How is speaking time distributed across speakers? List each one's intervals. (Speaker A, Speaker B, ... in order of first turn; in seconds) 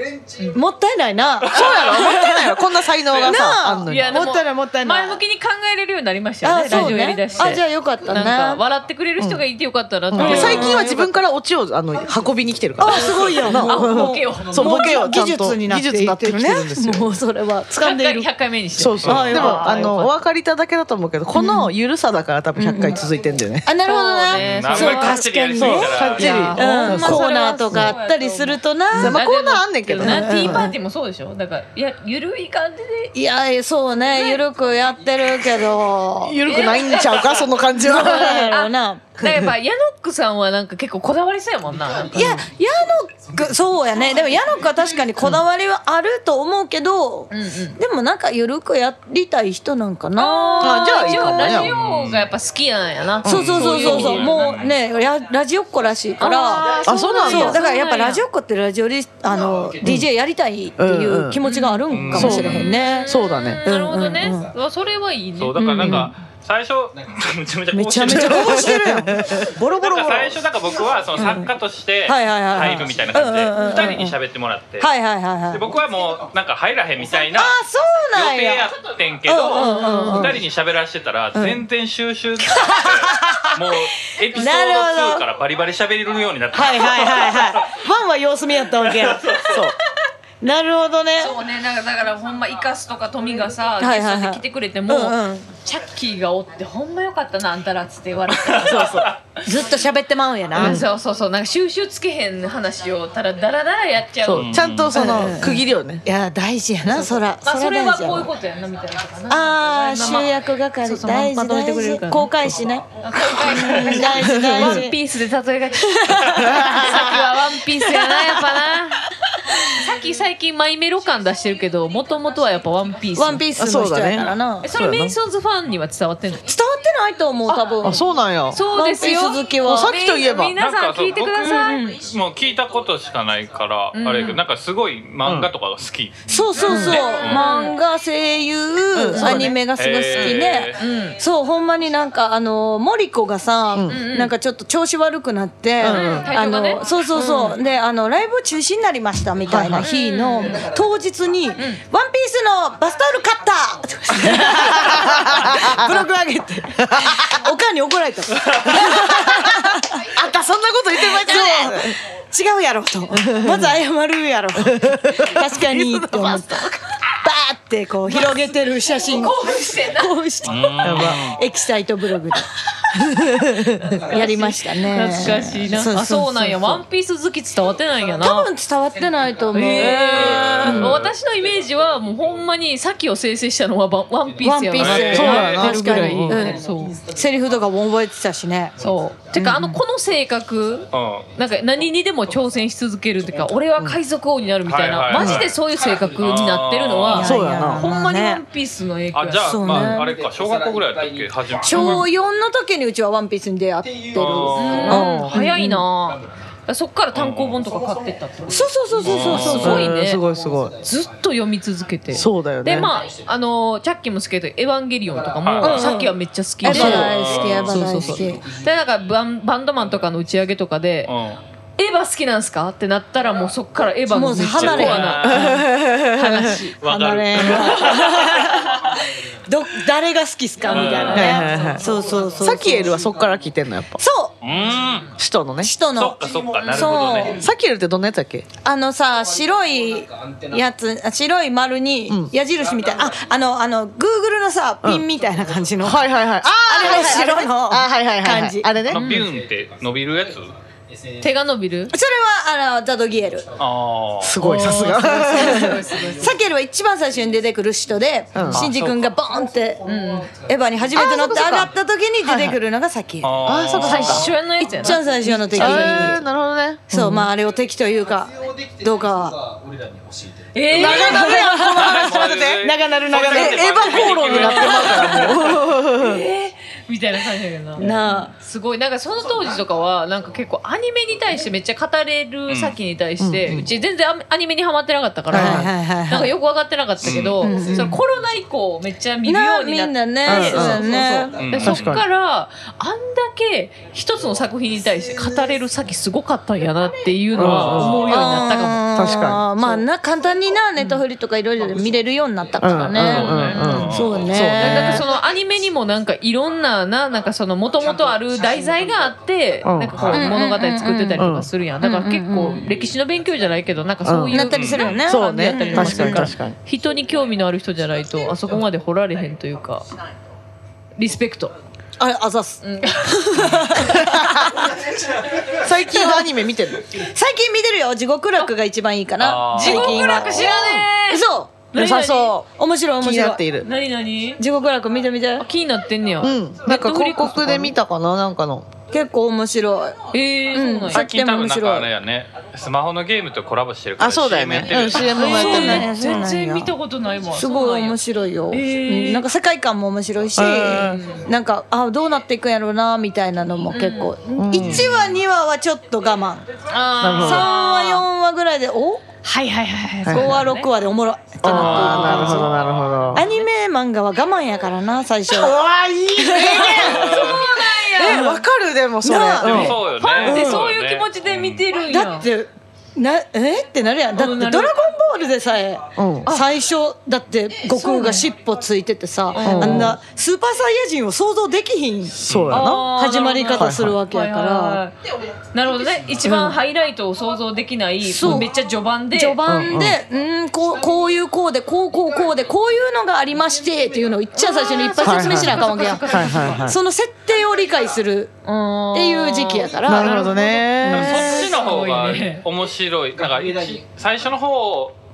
Speaker A: 0.5-2.6, 3.1-5.2, 6.4-8.6, 10.2-11.2, 12.8-18.3, 19.1-19.9, 21.3-21.7, 22.6-23.0, 23.6-29.3, 30.0-30.8, 33.1-36.6, 37.8-39.2, 42.1-51.5, 53.2-64.5, 65.6-66.1, 67.7-70.4, 71.2-71.5, 72.1-74.2, 74.8-75.7, 77.3-78.7, 79.3-80.4, 81.3-81.6, 82.4-83.8, 84.3-85.2, 86.5-89.7, 90.4-91.4, 93.8-95.5, 99.4-100.8, 104.9-108.3, 109.3-115.0, 115.9-117.3, 117.8-118.4, 123.1-124.7, 126.5-130.0, 131.4-132.1, 136.3-160.0, 160.9-166.7, 167.2-172.5, 174.0-176.8, 178.2-180.9, 184.4-188.8, 189.3-189.8, 197.1-198.4, 199.4-200.2, 201.6-205.9, 208.4-209.9, 215.6-218.4, 224.1-225.5, 226.8-228.9, 229.5-233.0, 234.0-234.3, 235.6-237.4, 238.6-246.1, 246.6-248.7, 251.9-253.5, 255.0-259.8, 260.4-263.4, 264.6-266.3, 266.9-269.4, 270.8-274.3, 277.8-278.3, 285.3-286.3, 287.4-288.0, 289.2-291.4, 298.0-305.1, 310.1-311.3, 311.8-312.7, 314.3-316.4, 322.0-324.8, 325.7-326.3, 327.0-331.6, 332.5-333.4, 334.4-335.4, 338.9-340.0, 340.5-341.9, 345.1-346.7, 347.3-356.5, 357.1-359.1, 360.1-362.5, 363.1-365.6, 366.1-368.4, 369.0-370.7, 371.9-384.8, 388.0-388.5, 389.1-398.3, 398.9-401.6
Speaker B: 1.5-1.8, 3.1-3.4, 19.0-19.3, 24.3-26.7, 51.5-52.3, 53.3-54.7, 61.9-62.8, 65.4-68.8, 69.7-74.9, 75.5-77.6, 78.1-87.8, 88.8-89.5, 98.5-99.0, 104.3-105.0, 113.7-114.0, 130.5-137.5, 139.7-140.8, 170.4-171.4, 180.1-181.1, 184.8-185.7, 190.9-191.3, 194.7-195.5, 196.2-197.3, 199.1-202.1, 204.2-205.1, 207.1-207.6, 209.0-209.8, 215.4-215.9, 216.8-218.0, 221.1-221.4, 224.4-225.6, 226.8-228.9, 230.7-231.4, 234.4-235.1, 235.9-237.4, 248.9-250.6, 253.6-254.4, 258.5-259.0, 263.2-264.3, 270.8-275.6, 282.5-282.8, 287.0-287.5, 291.4-292.0, 297.4-298.2, 302.9-304.3, 310.0-310.3, 314.5-315.0, 323.4-323.7, 329.2-330.0, 340.9-345.4, 354.5-354.9, 361.5-363.2, 366.8-367.5, 369.4-371.6, 382.2-382.6, 400.9-404.9
Speaker C: 1.5-4.2, 10.1-17.1, 18.8-23.7, 25.6-27.9, 28.9-30.6, 36.2-38.6, 39.2-39.5, 50.6-51.7, 53.2-53.5, 56.9-57.6, 59.8-60.1, 60.8-61.4, 62.1-63.6, 65.8-66.1, 68.0-69.4, 89.5-89.8, 98.5-99.1, 100.6-100.9, 104.2-106.0, 114.1-114.8, 116.4-117.2, 123.6-125.2, 127.8-128.6, 129.6-130.5, 135.2-135.5, 136.7-136.9, 138.9-139.6, 145.8-146.3, 149.5-149.9, 154.3-156.1, 156.8-157.4, 158.7-162.0, 163.2-163.8, 164.6-166.6, 170.8-171.2, 173.2-173.8, 179.7-180.0, 180.5-181.0, 185.1-186.5, 195.2-195.5, 197.2-197.9, 204.8-205.4, 209.6-210.8, 212.1-212.9, 216.7-217.1, 225.2-226.6, 231.1-234.0, 235.2-235.7, 237.3-238.5, 245.8-249.0, 254.2-255.8, 258.4-258.7, 260.9-261.7, 262.2-262.6, 263.5-264.3, 265.2-267.3, 270.7-276.3, 283.2-283.7, 285.3-285.7, 290.3-290.9, 291.6-292.0, 297.3-298.1, 298.9-299.4, 302.6-305.1, 309.6-310.1, 311.2-311.5, 314.0-314.4, 315.1-316.6, 323.9-324.5, 325.6-326.8, 329.7-330.9, 331.7-332.5, 333.0-333.7, 336.2-338.7, 344.0-345.9, 350.4-351.0, 354.4-354.9, 357.0-357.5, 360.1-360.4, 361.4-363.2, 365.3-369.8, 376.0-376.3, 379.4-380.0, 382.2-382.9, 383.6-384.0, 386.2-386.6, 389.5-390.0, 395.0-396.8, 399.8-401.3
Speaker D: 3.9-10.8, 12.9-14.9, 17.8-20.1, 23.8-25.2, 26.2-33.1, 36.4-42.5, 47.3-47.8, 50.2-54.5, 56.2-58.2, 61.4-65.6, 79.5-80.3, 91.2-99.1, 100.5-104.6, 106.9-112.3, 113.0-119.0, 119.6-123.4, 124.6-126.5, 128.5-131.8, 133.9-134.4, 136.6-137.8, 139.1-139.6, 140.8-141.2, 143.9-144.3, 145.8-147.6, 149.8-150.7, 168.1-170.8, 173.8-178.5, 179.5-187.0, 188.8-199.9, 204.6-210.2, 210.8-221.1, 221.8-226.8, 227.4-227.9, 230.7-231.9, 236.6-237.2, 248.9-249.3, 251.2-251.9, 254.4-256.4, 259.9-260.3, 263.8-266.2, 270.5-271.6, 274.2-277.9, 278.4-299.8, 303.1-319.9, 321.0-321.5, 322.6-323.8, 329.5-332.4, 333.6-334.4, 335.4-337.7, 340.1-341.1, 344.9-348.0, 348.5-349.2, 350.7-351.2, 353.7-354.2, 356.7-358.0, 359.2-360.7, 361.4-362.5, 366.4-368.3, 369.4-372.3, 374.2-374.8, 377.7-378.3, 379.3-379.9, 382.5-385.0, 385.5-389.4, 394.3-396.7, 398.4-400.6, 401.2-402.4